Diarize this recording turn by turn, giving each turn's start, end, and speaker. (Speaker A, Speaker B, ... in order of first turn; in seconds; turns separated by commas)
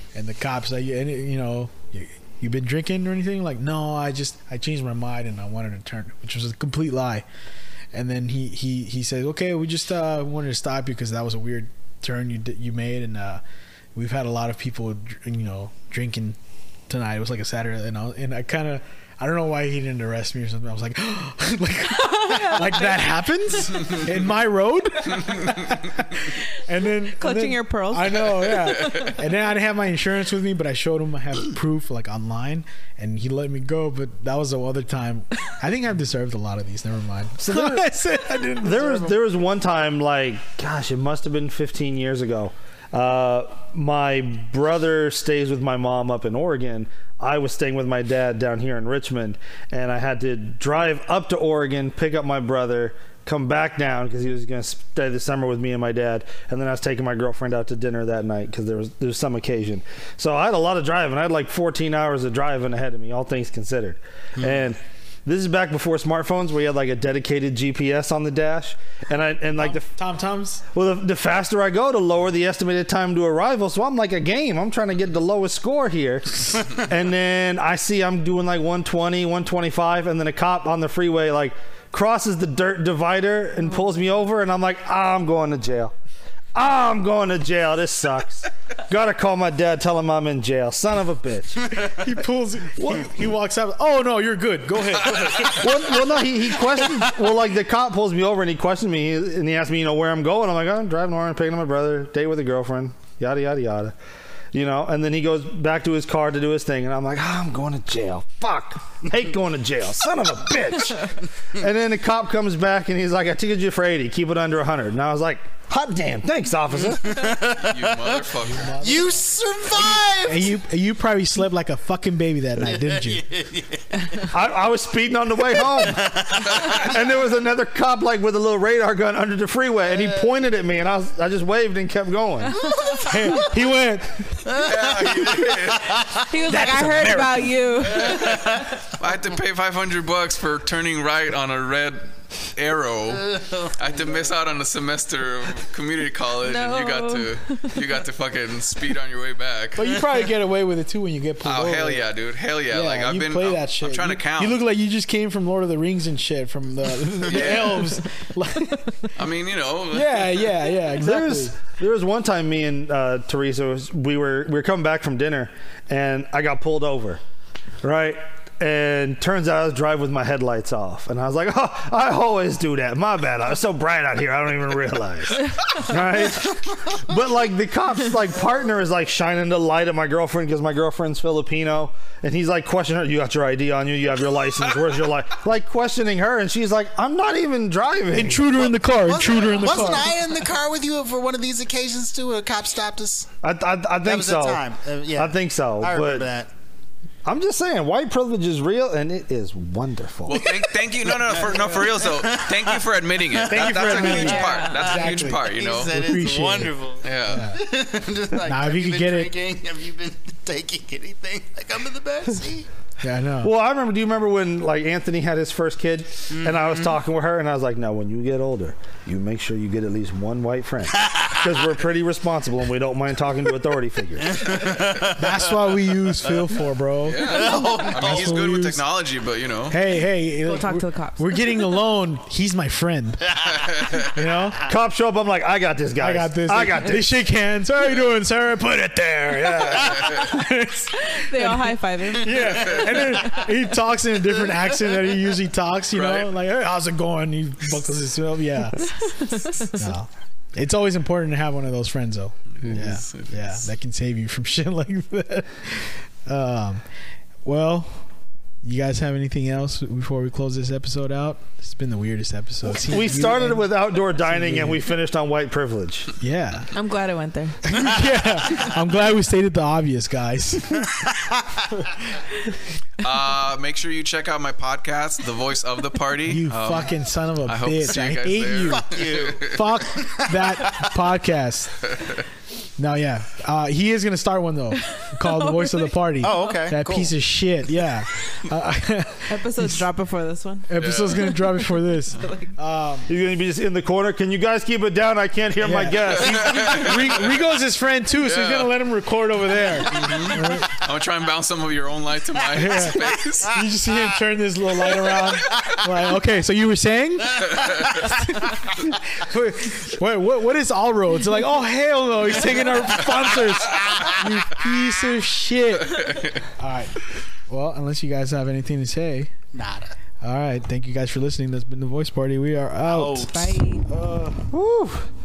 Speaker A: 0.1-7.2, Speaker A: 7.9-13.4, Speaker A: 13.9-16.4, Speaker A: 16.9-39.1, Speaker B: 21.9-23.1, Speaker B: 27.1-29.1, Speaker C: 37.4-37.8, Speaker C: 38.6-69.9, Speaker A: 69.6-70.6, Speaker C: 70.7-85.9, Speaker C: 86.5-92.0, Speaker A: 91.7-95.7, Speaker C: 95.5-104.0, Speaker C: 104.5-117.3, Speaker D: 117.0-118.3, Speaker E: 117.5-119.0, Speaker A: 118.5-119.2, Speaker D: 118.8-120.5, Speaker A: 120.0-123.3, Speaker D: 123.1-124.2, Speaker C: 124.2-132.6, Speaker D: 126.0-126.6, Speaker A: 133.0-134.6, Speaker D: 134.5-136.2, Speaker E: 134.6-136.0, Speaker B: 136.3-138.2, Speaker A: 136.5-137.5, Speaker D: 138.1-138.7, Speaker E: 138.1-150.0, Speaker B: 146.4-147.8, Speaker A: 149.8-152.1, Speaker E: 151.4-154.6, Speaker A: 152.7-159.1, Speaker E: 157.3-157.9, Speaker E: 159.2-160.7, Speaker A: 159.9-161.6, Speaker C: 161.0-167.2, Speaker C: 167.8-188.8, Speaker A: 188.1-190.1, Speaker D: 189.0-193.3, Speaker C: 193.4-196.3, Speaker D: 194.0-196.5, Speaker C: 197.2-200.6, Speaker E: 200.3-205.9, Speaker D: 201.3-202.7, Speaker D: 203.3-204.3, Speaker A: 203.4-207.6, Speaker B: 203.9-204.8, Speaker D: 204.9-212.7, Speaker E: 207.0-207.5, Speaker A: 208.4-209.3, Speaker A: 213.0-213.5, Speaker C: 213.4-224.6, Speaker D: 216.3-216.6, Speaker D: 224.4-225.2, Speaker A: 225.0-228.8, Speaker E: 227.1-229.8, Speaker D: 227.3-228.4, Speaker A: 229.7-233.4, Speaker B: 230.4-231.6, Speaker A: 234.0-234.7, Speaker C: 234.6-237.1, Speaker A: 236.0-256.8, Speaker E: 239.9-240.3, Speaker B: 241.0-242.7, Speaker D: 242.7-242.9, Speaker E: 245.9-246.3, Speaker B: 249.0-249.7, Speaker E: 252.5-253.6, Speaker A: 257.4-258.0, Speaker A: 258.6-263.7, Speaker C: 262.7-266.1, Speaker A: 264.2-264.8, Speaker A: 266.2-266.7, Speaker B: 266.7-267.8, Speaker A: 267.6-270.9, Speaker D: 271.2-271.6, Speaker E: 273.0-279.6, Speaker A: 276.3-278.9, Speaker D: 278.7-279.5, Speaker A: 279.4-281.9, Speaker D: 280.1-280.9, Speaker E: 281.9-282.2, Speaker A: 282.8-289.8, Speaker B: 284.9-285.9, Speaker D: 286.2-287.1, Speaker B: 289.3-292.5, Speaker A: 290.7-293.1, Speaker E: 290.8-291.3, Speaker C: 293.1-297.2, Speaker A: 295.6-300.8, Speaker E: 296.2-297.1, Speaker E: 298.2-298.7, Speaker E: 299.8-303.6, Speaker A: 302.5-319.3, Speaker E: 315.9-316.4, Speaker D: 319.5-319.9, Speaker A: 320.2-323.3, Speaker D: 322.9-323.5, Speaker B: 323.1-323.9, Speaker A: 323.9-324.4, Speaker C: 324.3-325.1